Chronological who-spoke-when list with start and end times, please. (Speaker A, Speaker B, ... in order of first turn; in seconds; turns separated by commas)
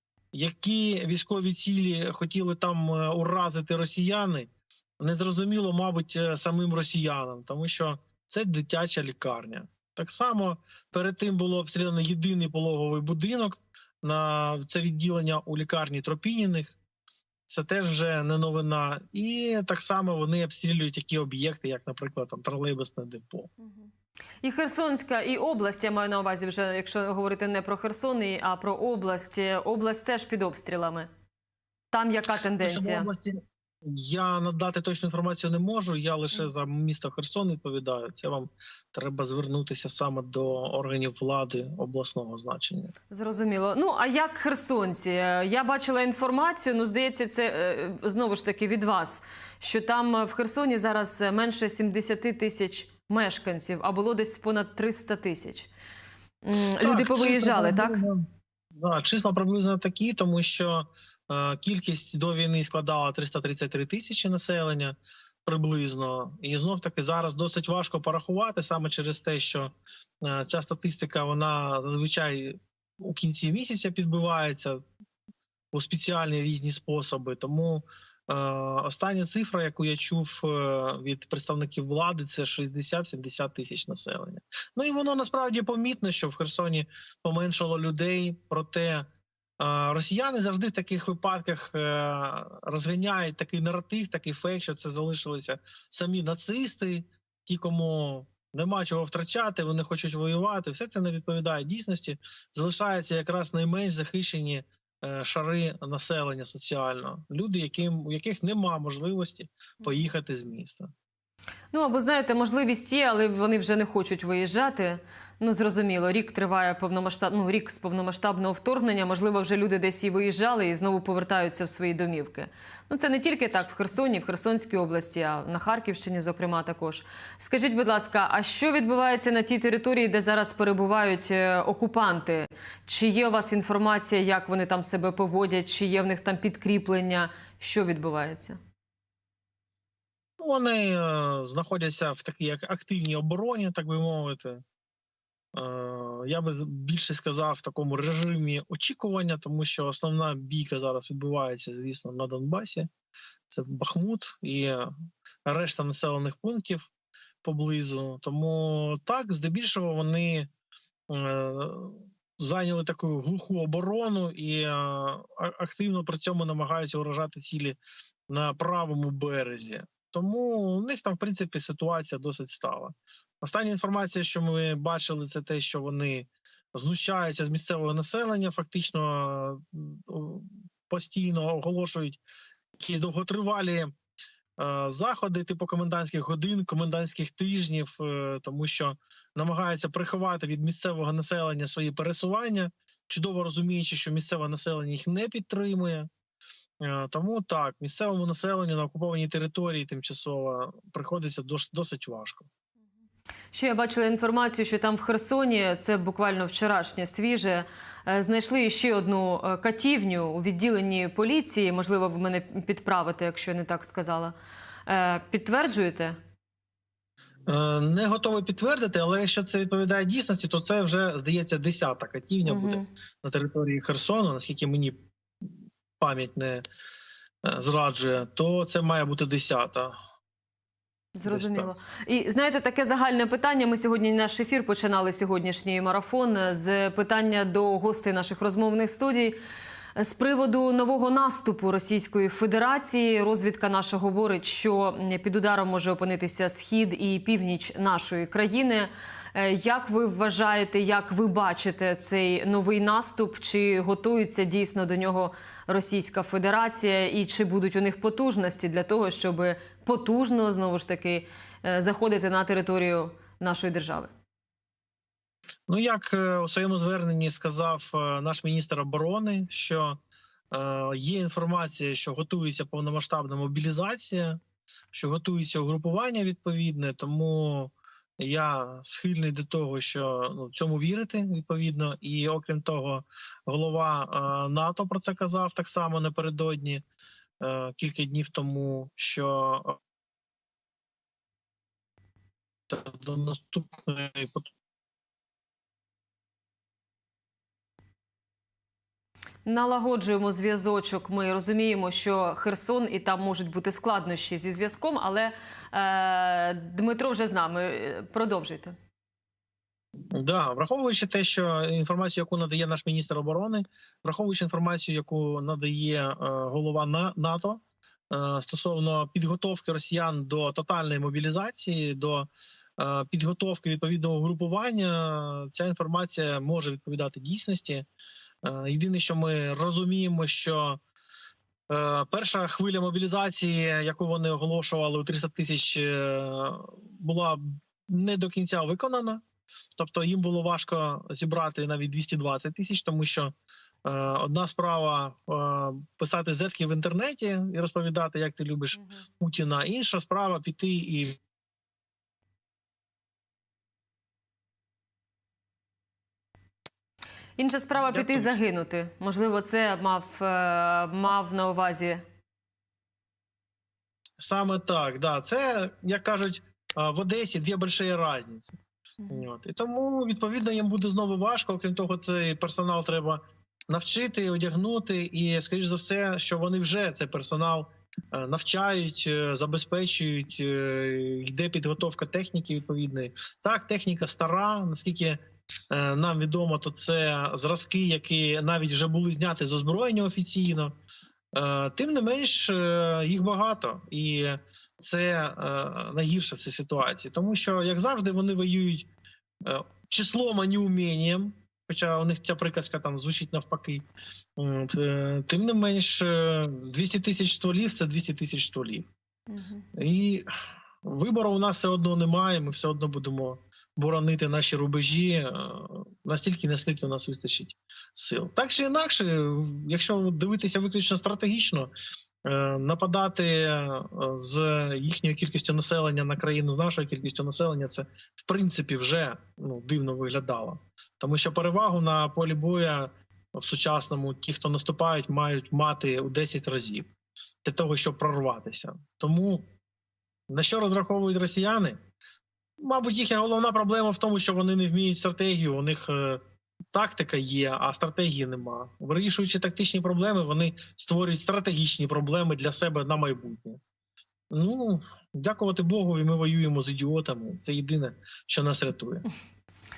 Speaker A: 0.3-16.8, Speaker A: 17.5-23.5, Speaker B: 23.6-23.9, Speaker B: 24.4-31.1, Speaker B: 31.9-33.1, Speaker A: 32.6-42.9, Speaker B: 43.1-55.7, Speaker B: 56.4-58.0, Speaker A: 56.8-74.8, Speaker A: 75.7-89.0, Speaker A: 89.6-110.9, Speaker B: 111.7-138.6, Speaker A: 140.4-144.6, Speaker A: 145.5-152.9, Speaker A: 153.5-154.9, Speaker A: 155.4-156.9, Speaker A: 157.4-160.5, Speaker A: 161.1-167.8, Speaker A: 168.3-182.2, Speaker A: 182.8-183.9, Speaker A: 184.6-196.1, Speaker A: 196.8-202.5, Speaker B: 203.5-214.3, Speaker B: 214.9-216.2, Speaker A: 217.5-225.5, Speaker B: 222.4-222.9, Speaker A: 226.0-226.6, Speaker A: 227.4-229.9, Speaker B: 231.1-239.4, Speaker A: 231.2-231.7, Speaker B: 239.9-264.1, Speaker A: 265.7-270.0, Speaker A: 270.5-274.4, Speaker A: 274.9-286.8, Speaker A: 287.4-289.8, Speaker A: 292.7-294.5, Speaker B: 299.4-308.8, Speaker A: 310.1-327.9, Speaker A: 328.4-330.8, Speaker A: 331.7-339.2, Speaker A: 339.8-343.3, Speaker A: 343.8-351.2, Speaker B: 357.4-362.0, Speaker A: 357.7-358.3, Speaker A: 364.2-368.6, Speaker A: 369.1-385.2, Speaker A: 385.7-390.7, Speaker A: 391.3-398.9, Speaker A: 399.4-403.8, Speaker A: 404.4-408.9, Speaker B: 409.3-409.6, Speaker A: 409.7-410.2, Speaker A: 410.8-421.7, Speaker A: 422.2-436.9, Speaker A: 437.4-439.5, Speaker A: 440.3-441.8, Speaker A: 442.6-446.2, Speaker A: 446.7-453.6, Speaker A: 454.3-459.1